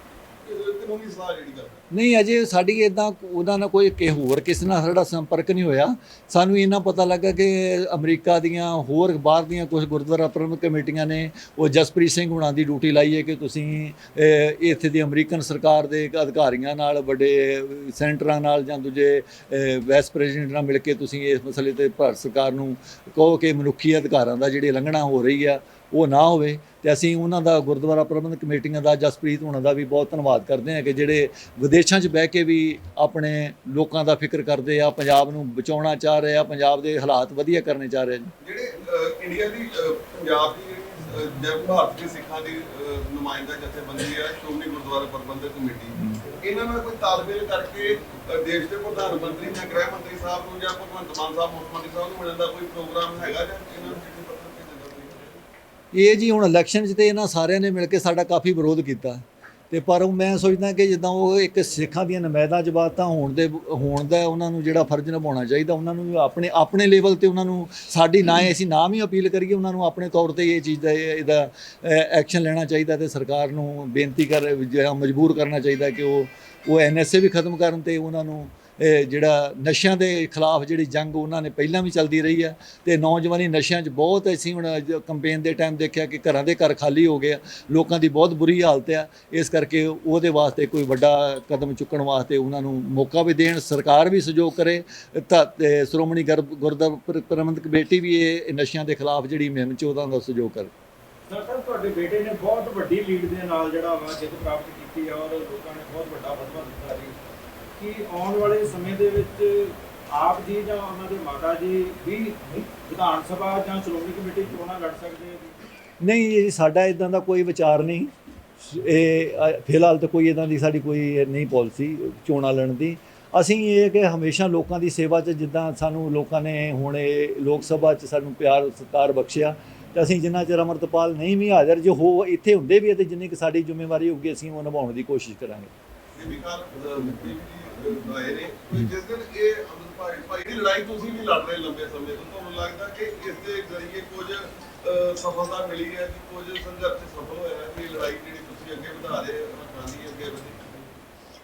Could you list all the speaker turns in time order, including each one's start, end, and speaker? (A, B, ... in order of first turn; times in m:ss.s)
0:00.4-0:01.8 A
0:01.9-0:38.3 B
0:38.4-0:55.4 A
0:55.9-1:40.7 B
1:41.3-1:47.1 C
1:47.8-1:55.5 C
1:56.0-2:15.7 B
2:16.2-2:31.0 A